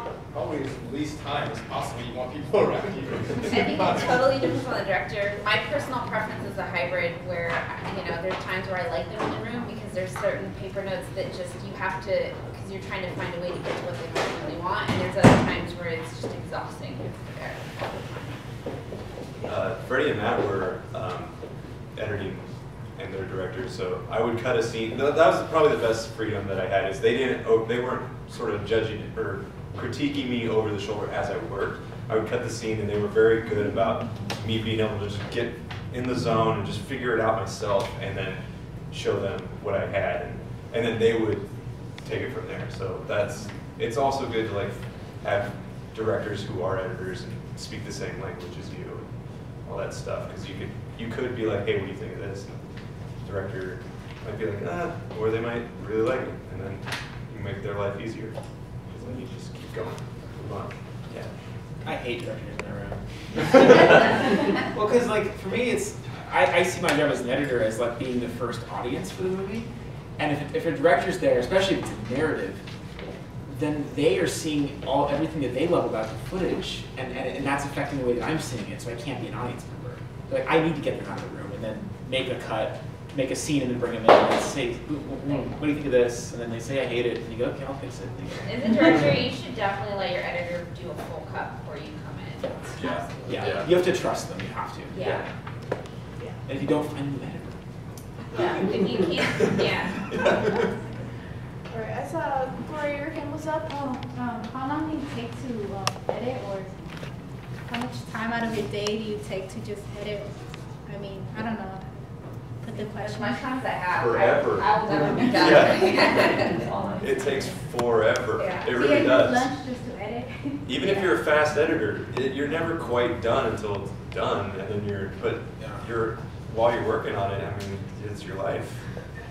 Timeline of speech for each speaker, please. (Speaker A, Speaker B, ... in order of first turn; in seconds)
Speaker A: 0.3-4.4
Speaker B: 3.4-18.2, 88.5-93.7, 94.9-95.3, 98.3-100.6, 113.0-116.7, 118.4-118.9
Speaker C: 19.4-21.3, 21.9-41.5, 42.0-49.1, 49.7-52.5, 53.2-58.4, 58.9-61.3, 63.5-64.2, 92.8-93.6, 99.5-100.5, 114.0-116.1, 117.0-119.5, 120.7-128.9
Speaker D: 61.8-72.6, 73.5-89.0, 93.2-95.3, 96.5-97.6, 125.6-125.8
Speaker E: 101.7-104.0
Speaker F: 104.0-106.9, 107.6-110.3, 110.9-111.9, 112.6-113.5, 114.8-115.5, 116.5-117.5, 118.7-121.2